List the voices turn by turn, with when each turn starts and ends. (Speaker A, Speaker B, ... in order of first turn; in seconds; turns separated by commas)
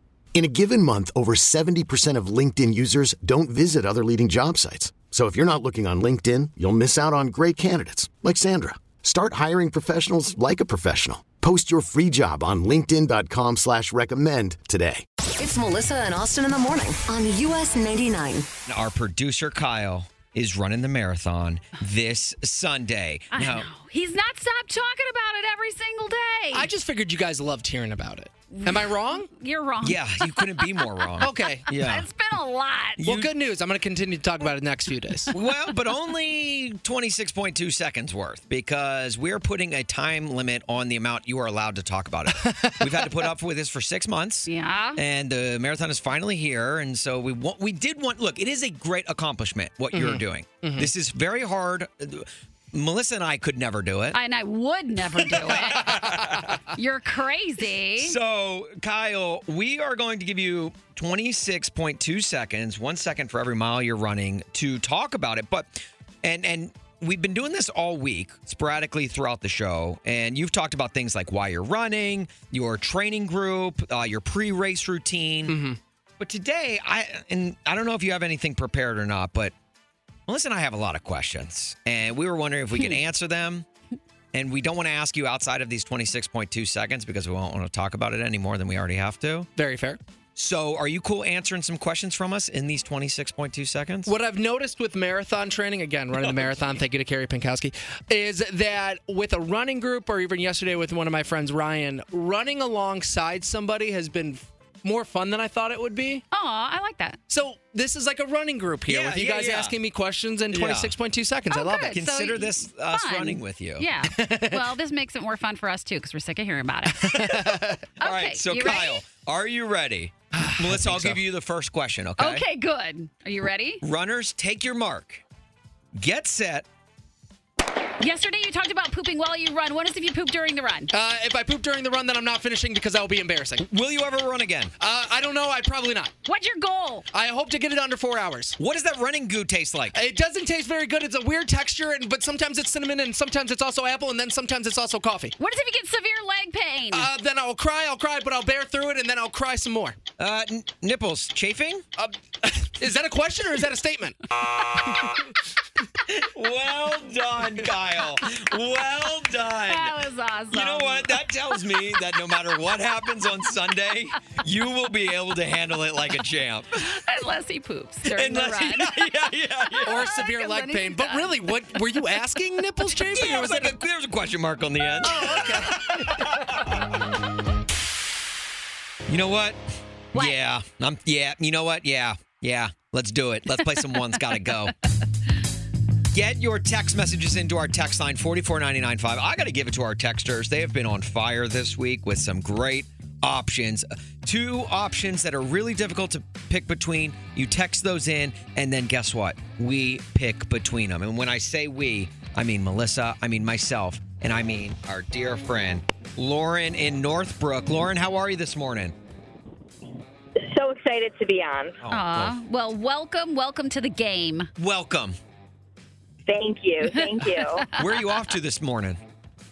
Speaker A: 0.3-15.0, Speaker B: 15.4-18.5, Speaker C: 18.7-23.7, Speaker D: 23.3-26.7, Speaker E: 26.5-29.3, Speaker D: 28.5-33.0, Speaker C: 29.8-32.1, Speaker E: 31.2-31.7, Speaker C: 33.0-33.3, Speaker E: 33.0-35.3, Speaker C: 35.3-54.2, Speaker E: 42.4-43.1, Speaker D: 44.5-45.0, Speaker E: 49.9-50.9, Speaker D: 54.1-55.9, Speaker C: 55.4-56.6, Speaker E: 55.9-56.6, Speaker D: 56.7-58.2, Speaker C: 58.0-75.6, Speaker E: 75.5-75.8, Speaker C: 76.2-79.5, Speaker C: 80.3-83.7, Speaker C: 84.3-89.5, Speaker E: 89.6-90.0, Speaker C: 90.4-94.1, Speaker E: 94.1-106.2, Speaker D: 106.3-107.2, Speaker E: 107.3-111.9, Speaker C: 108.9-109.8, Speaker C: 110.5-110.9, Speaker D: 111.5-117.3, Speaker C: 111.8-113.9, Speaker E: 114.2-114.6, Speaker E: 116.9-117.8, Speaker D: 118.0-119.0, Speaker C: 118.0-122.5, Speaker E: 120.3-121.2, Speaker D: 122.2-123.8, Speaker C: 123.8-125.2, Speaker C: 126.0-126.7, Speaker D: 128.0-130.9, Speaker E: 130.9-133.7, Speaker C: 133.6-134.7, Speaker E: 134.8-136.1, Speaker D: 136.2-137.1, Speaker E: 137.1-138.6, Speaker C: 138.6-140.0, Speaker E: 139.9-145.3, Speaker D: 145.4-147.1, Speaker E: 146.9-150.0, Speaker C: 150.2-151.8, Speaker E: 152.0-154.2, Speaker C: 156.1-166.8, Speaker D: 159.7-161.6, Speaker D: 166.8-169.1, Speaker C: 168.1-170.1, Speaker D: 169.7-171.4, Speaker E: 169.9-173.7, Speaker C: 173.0-176.8, Speaker E: 175.0-176.5, Speaker C: 179.1-179.6, Speaker C: 180.1-184.7, Speaker C: 186.1-208.9, Speaker F: 210.4-211.8, Speaker C: 211.8-212.4, Speaker D: 211.9-214.5, Speaker C: 214.6-215.2, Speaker F: 216.3-217.6, Speaker D: 216.9-218.3, Speaker C: 217.7-219.0